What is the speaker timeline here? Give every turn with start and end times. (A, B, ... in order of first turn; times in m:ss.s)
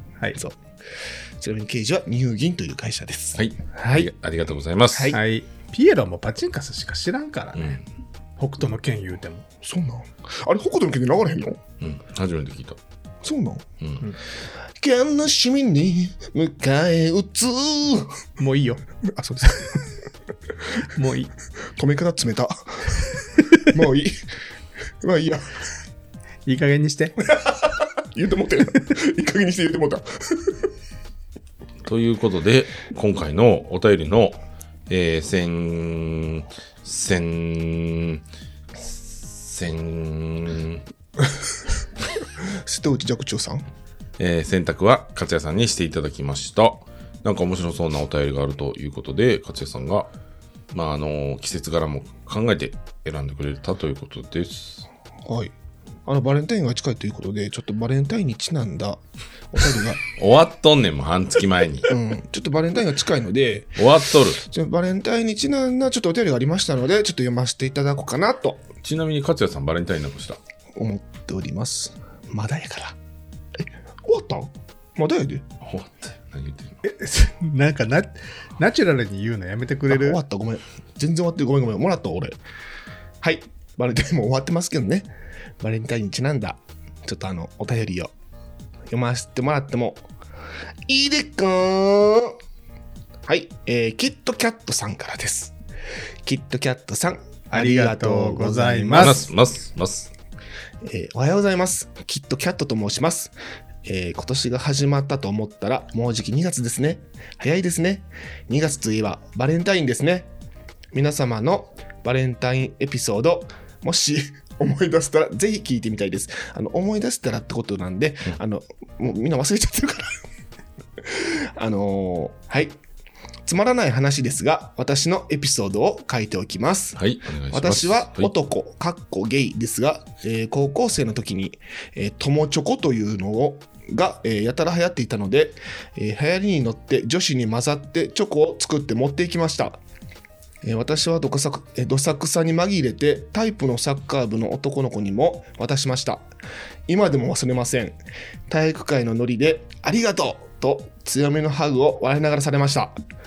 0:01.4-0:04.1 A
0:03.4-0:05.2 B
0:04.9-0:05.2 A
0:05.1-0:07.8 C
0:08.4-0:09.4 C
0:09.6-0:11.6 A
0:11.8-0:12.8 B
0:13.2-0:13.6 A
0:14.8-0:18.2 A
0:18.4-0:18.8 C
0:19.0-0:19.9 A
0:20.9-0:21.3 C
0:21.8-0:24.2 A
0:25.0-0:25.5 A
0:26.4-0:27.2 C
0:27.2-0:30.7 A
0:31.8-0:38.2 B
0:38.9-0:40.8 B
0:42.4-0:43.6 A
0:44.2-0:50.1 B
0:50.7-0:54.9 B
0:55.2-0:55.5 A
0:56.0-1:00.0 A
1:00.2-1:01.9 B
1:01.9-1:08.6 A
1:03.8-1:04.4 B
1:08.8-1:10.4 B
1:10.7-1:13.0 A
1:13.5-1:15.4 A
1:15.6-1:16.8 B
1:16.8-1:20.2 C
1:19.9-1:22.4 A
1:23.2-1:28.1 A
1:28.9-1:30.0 A
1:30.9-1:32.4 A
1:33.2-1:35.6 A
1:36.2-1:39.3 A
1:37.5-1:39.2 C
1:39.0-1:40.1 B
1:40.8-1:50.3 A
1:50.9-2:00.1 A
2:01.0-2:02.8 A
2:03.4-2:07.0 A
2:07.0-2:08.3 B
2:07.5-2:19.8 A
2:20.6-2:26.3 A
2:26.9-2:33.0 A